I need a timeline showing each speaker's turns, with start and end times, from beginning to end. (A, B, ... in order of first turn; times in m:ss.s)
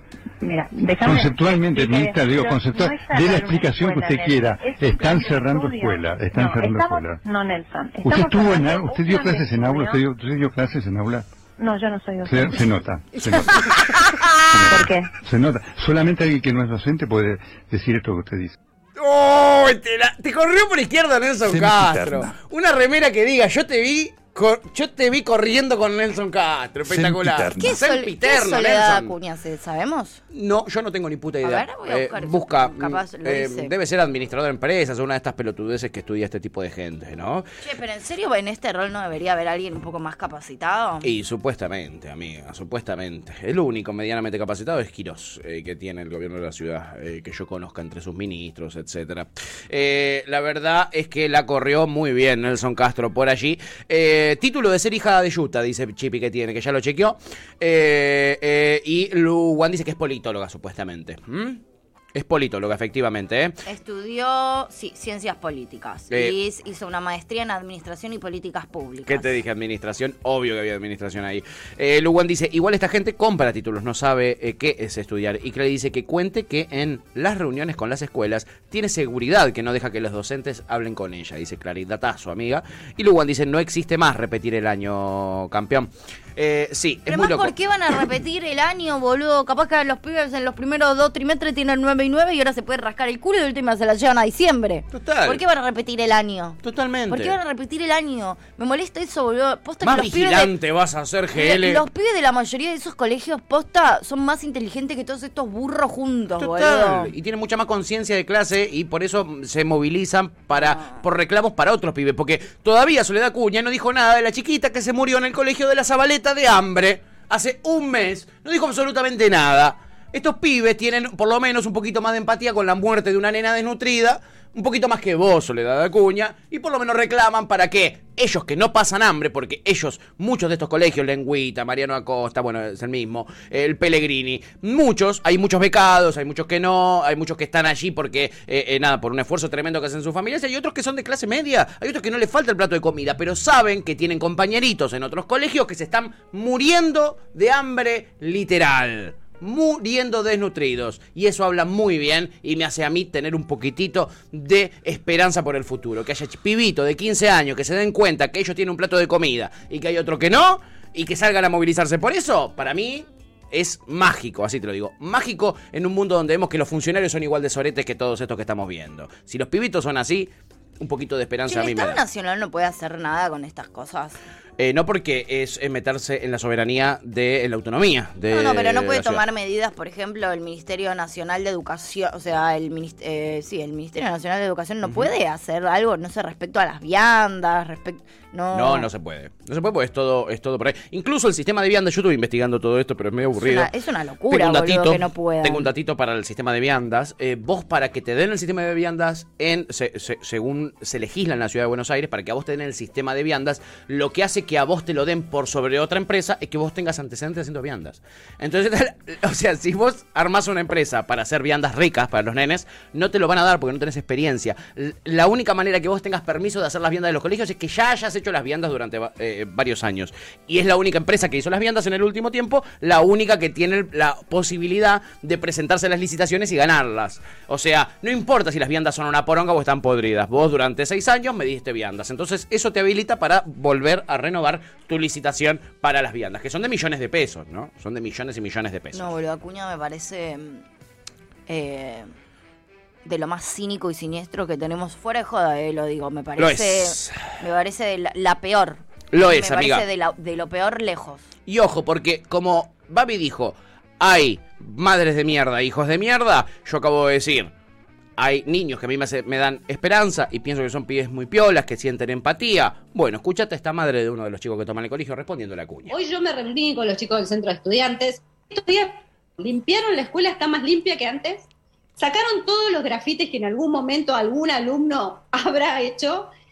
0:00.4-0:10.0 A
0:01.0-0:07.2 B
0:08.0-0:11.3 B
0:11.6-0:12.7 A
0:12.2-0:13.7 B
0:13.2-0:13.5 C
0:14.5-0:18.6 B
0:14.7-0:15.1 A
0:19.0-0:29.1 D
0:21.6-0:22.3 B
0:27.1-0:27.4 B
0:27.5-0:30.2 C
0:30.3-0:37.5 D
0:31.4-0:33.7 C
0:37.6-0:41.1 C
0:41.0-1:01.6 D
1:02.1-1:03.6 D
1:03.6-1:09.3 C
1:09.1-1:27.5 D
1:27.1-1:40.5 C
1:34.9-1:35.4 D
1:36.6-1:37.4 D
1:39.8-1:41.8 D
1:41.3-1:47.1 C
1:46.4-2:52.0 D
1:50.5-1:51.0 C
2:51.5-2:54.2 C
2:54.6-2:59.2 D
2:58.3-3:08.9 C
3:04.8-3:05.1 D
3:08.5-3:13.7 D
3:13.4-3:15.7 C
3:14.3-3:59.1 D
3:58.9-4:00.6 C
4:01.5-4:02.1 C
4:03.0-4:11.3 C
4:06.4-4:07.2 D
4:09.1-4:09.8 D
4:11.5-4:17.5 D
4:18.2-4:25.9 D
4:25.9-4:36.3 E